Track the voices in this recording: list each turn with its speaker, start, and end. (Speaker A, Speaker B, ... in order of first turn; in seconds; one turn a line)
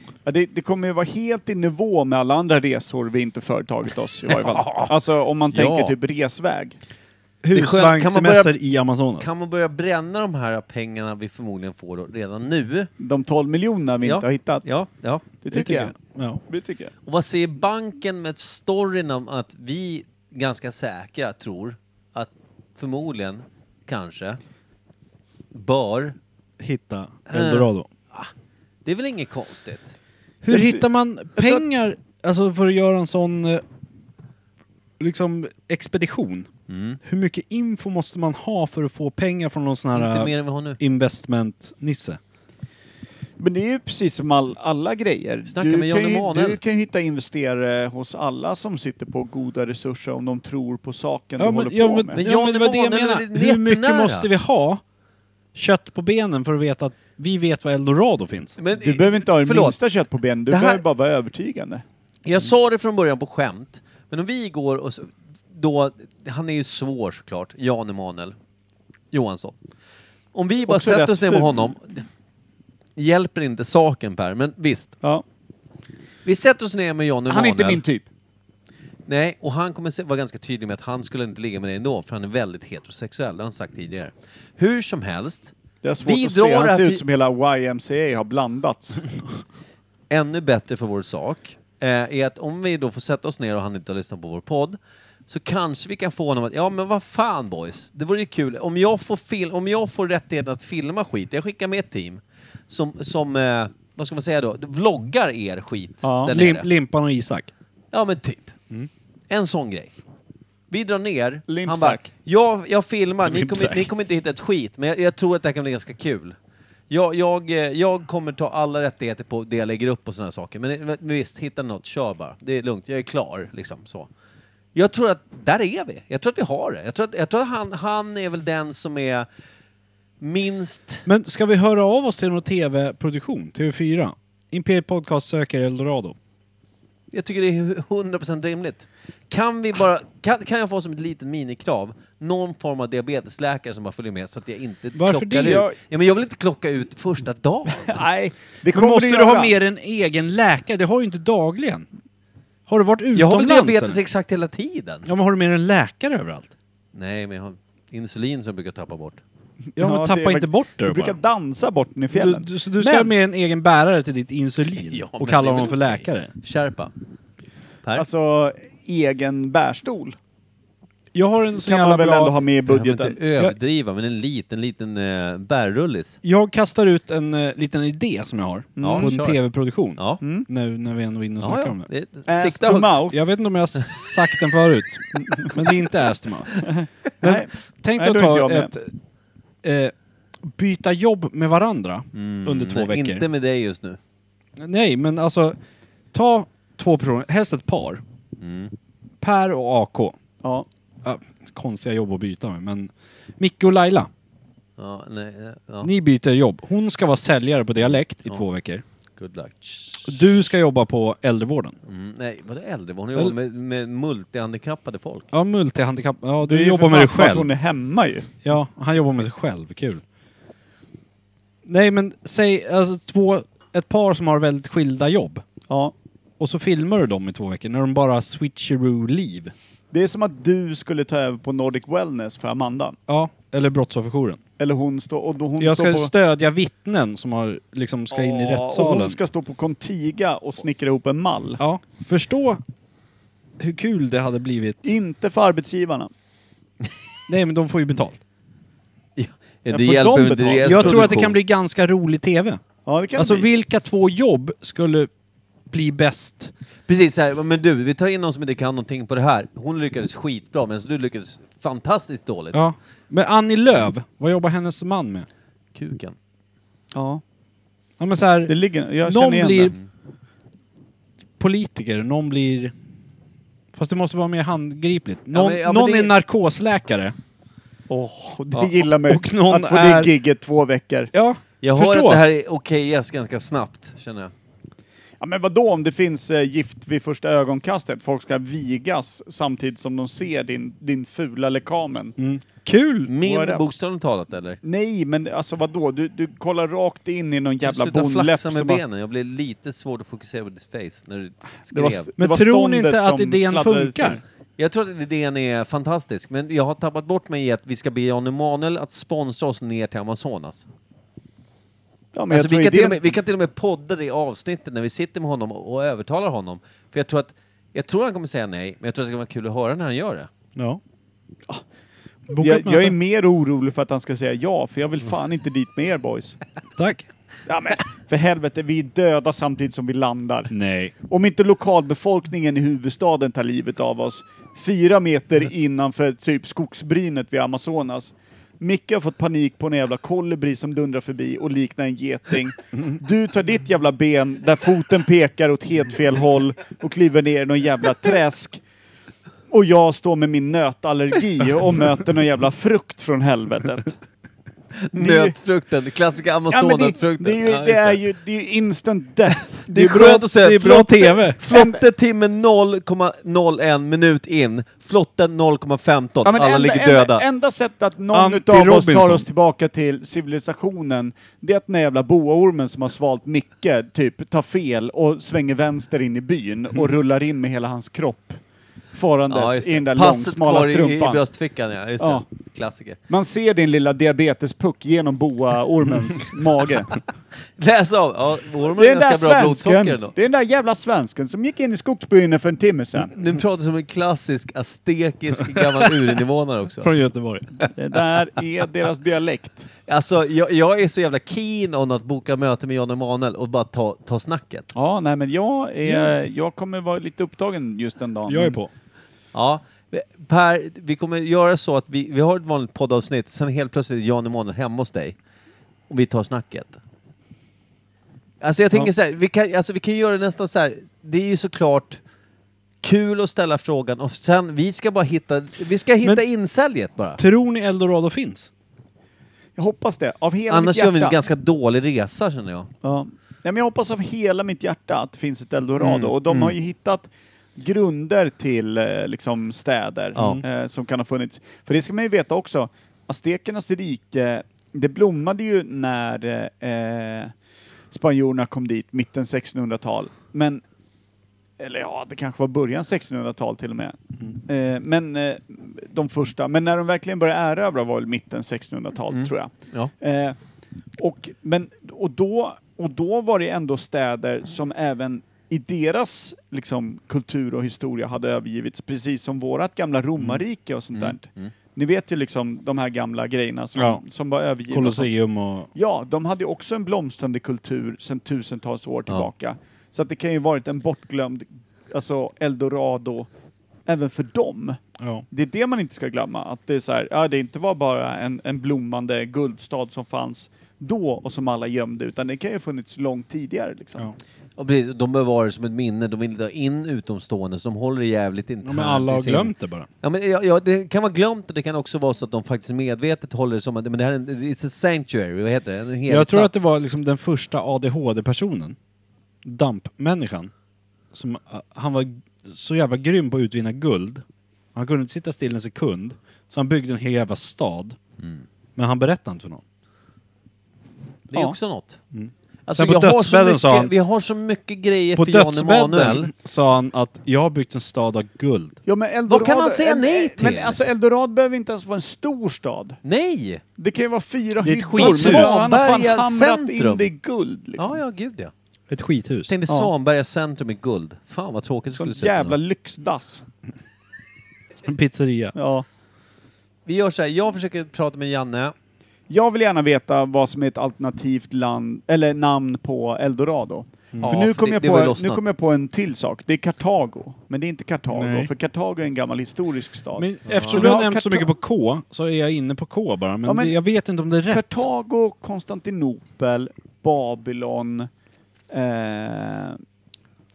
Speaker A: 0.2-6.8
Speaker B: 4.3-5.0
Speaker B: 5.5-6.0
Speaker C: 7.4-9.3
Speaker B: 7.5-8.6
Speaker B: 9.2-12.9
Speaker A: 13.0-14.7
Speaker B: 14.0-15.3
Speaker A: 15.4-15.9
Speaker C: 15.5-16.4
Speaker A: 16.5-16.9
Speaker B: 17.1-24.4
Speaker B: 25.5-26.2
Speaker C: 26.6-27.9
Speaker B: 27.3-28.3
Speaker B: 28.9-29.9
Speaker C: 30.4-33.6
Speaker A: 30.5-30.8
Speaker A: 31.4-31.6
Speaker C: 35.0-36.5
Speaker B: 36.7-37.0
Speaker C: 37.0-42.2
Speaker B: 40.0-40.8
Speaker A: 43.4-52.2
Speaker B: 45.5-46.6
Speaker C: 51.4-54.8
Speaker B: 52.2-54.3
Speaker C: 55.5-58.6
Speaker B: 58.6-59.8
Speaker A: 58.7-61.8
Speaker B: 60.5-60.8
Speaker B: 62.2-68.4
Speaker B: 69.1-69.6
Speaker B: 70.3-72.0
Speaker A: 70.7-71.8
Speaker B: 73.0-75.0
Speaker B: 76.2-77.8
Speaker A: 77.3-78.1
Speaker B: 79.1-85.5
Speaker A: 85.8-89.1
Speaker B: 86.0-87.0
Speaker B: 90.1-106.7
Speaker A: 106.0-106.3
Speaker C: 106.3-107.5
Speaker B: 107.9-108.5
Speaker B: 109.3-109.9
Speaker B: 110.7-116.4
Speaker A: 111.5-112.1
Speaker C: 113.3-113.9
Speaker B: 116.9-124.1
Speaker B: 124.8-129.3
Speaker B: 130.2-131.1
Speaker C: 131.1-136.2
Speaker B: 137.1-148.0
Speaker C: 144.9-145.7
Speaker A: 145.4-145.8
Speaker A: 147.8-149.5
Speaker C: 148.7-151.9
Speaker C: 152.7-154.0
Speaker B: 153.2-155.1
Speaker C: 155.1-156.5
Speaker B: 156.9-159.2
Speaker A: 159.7-163.1
Speaker C: 159.8-161.2
Speaker C: 162.1-166.3
Speaker B: 164.9-166.9
Speaker A: 167.9-170.2
Speaker C: 171.1-172.3
Speaker A: 171.6-173.2
Speaker B: 172.7-176.2
Speaker C: 176.2-181.9
Speaker A: 178.8-179.1
Speaker B: 178.8-179.4
Speaker B: 180.0-180.2
Speaker A: 180.2-180.5
Speaker B: 181.4-183.1
Speaker A: 182.3-183.2
Speaker C: 183.1-186.5
Speaker A: 185.2-185.5
Speaker A: 186.8-188.7
Speaker C: 187.2-188.9
Speaker C: 189.6-193.2
Speaker B: 192.1-194.0
Speaker C: 194.6-195.6
Speaker C: 196.1-198.0
Speaker B: 198.4-198.7
Speaker C: 199.2-200.2
Speaker C: 201.0-204.1
Speaker B: 204.8-205.9
Speaker C: 205.8-208.8
Speaker B: 207.8-208.4
Speaker B: 209.2-210.2
Speaker C: 210.0-211.8
Speaker B: 211.9-215.3
Speaker C: 215.3-217.5
Speaker A: 216.4-218.3
Speaker C: 218.4-220.0
Speaker C: 221.7-225.4
Speaker A: 225.7-225.9
Speaker C: 226.4-229.5
Speaker A: 229.9-233.0
Speaker C: 233.1-234.4
Speaker A: 234.6-236.1
Speaker C: 235.6-239.2
Speaker A: 238.1-241.6
Speaker C: 241.6-242.6
Speaker C: 243.6-244.9
Speaker A: 244.8-246.1
Speaker C: 247.3-248.2
Speaker B: 249.2-251.3
Speaker A: 249.7-251.3
Speaker C: 250.6-252.6
Speaker A: 252.9-253.5
Speaker C: 253.2-255.1
Speaker C: 255.7-256.5
Speaker B: 256.9-262.6
Speaker C: 262.5-265.3
Speaker B: 265.8-266.2
Speaker A: 266.9-267.2
Speaker C: 268.0-269.8
Speaker A: 268.5-269.8
Speaker C: 271.4-272.7
Speaker C: 273.7-277.1
Speaker B: 275.3-276.1
Speaker A: 277.9-281.1
Speaker C: 278.6-280.1
Speaker C: 281.1-282.2
Speaker B: 281.6-284.3
Speaker A: 285.2-292.2
Speaker C: 292.2-293.1
Speaker B: 293.1-294.6
Speaker A: 293.2-293.6
Speaker A: 294.6-298.8
Speaker B: 297.6-302.1
Speaker A: 301.7-304.2
Speaker C: 302.2-304.2
Speaker B: 304.6-310.6
Speaker A: 312.1-313.1
Speaker B: 312.3-320.3
Speaker C: 320.6-320.8
Speaker C: 322.3-323.0
Speaker A: 322.4-326.4
Speaker C: 326.8-327.1
Speaker A: 327.5-330.5
Speaker C: 330.5-330.9
Speaker A: 331.1-348.6
Speaker A: 349.5-354.0
Speaker B: 354.8-358.0
Speaker A: 354.9-355.4
Speaker A: 356.5-360.1
Speaker B: 359.6-367.3
Speaker C: 359.7-361.4
Speaker A: 361.5-361.8
Speaker A: 366.2-378.4
Speaker C: 368.1-369.3
Speaker A: 378.9-381.2
Speaker B: 379.3-383.0
Speaker A: 383.1-387.0
Speaker B: 387.6-390.1
Speaker A: 388.7-393.1
Speaker B: 393.1-396.9
Speaker C: 396.8-397.5
Speaker A: 397.7-399.7
Speaker B: 399.9-404.7
Speaker A: 404.7-408.6
Speaker C: 405.9-406.1
Speaker C: 408.3-408.7
Speaker B: 409.3-415.2
Speaker B: 415.9-416.8
Speaker B: 418.4-422.0
Speaker B: 422.8-427.2
Speaker C: 427.2-428.5
Speaker A: 429.6-431.2
Speaker B: 430.5-432.7
Speaker A: 432.8-447.3
Speaker B: 435.8-436.5
Speaker B: 440.1-440.4
Speaker C: 440.2-440.4
Speaker A: 447.9-450.6
Speaker A: 451.6-460.4
Speaker B: 459.1-459.9
Speaker A: 461.0-475.1
Speaker B: 470.9-471.5
Speaker C: 473.8-474.0
Speaker C: 474.7-475.7
Speaker A: 475.7-483.3
Speaker A: 483.9-494.1
Speaker C: 485.0-485.3
Speaker B: 494.6-506.7
Speaker C: 498.6-499.9
Speaker C: 506.1-508.8
Speaker C: 509.4-510.5
Speaker C: 511.1-518.0
Speaker C: 518.8-519.6
Speaker B: 521.3-522.0
Speaker C: 522.1-523.9
Speaker B: 522.7-526.3
Speaker C: 525.2-528.8
Speaker A: 528.9-533.0
Speaker B: 529.3-530.8
Speaker B: 533.0-533.6
Speaker A: 533.8-538.0
Speaker C: 534.6-535.8
Speaker B: 535.0-537.1
Speaker B: 537.8-538.5
Speaker C: 538.9-539.5
Speaker B: 539.5-542.6
Speaker A: 542.0-543.5
Speaker C: 544.8-545.5
Speaker A: 545.5-545.9
Speaker B: 546.9-548.7
Speaker A: 549.3-561.5
Speaker C: 554.1-554.4
Speaker B: 554.2-555.4
Speaker C: 558.1-558.5
Speaker C: 560.2-564.8
Speaker B: 560.5-561.0
Speaker A: 563.5-563.8
Speaker A: 564.5-568.1
Speaker A: 568.7-569.8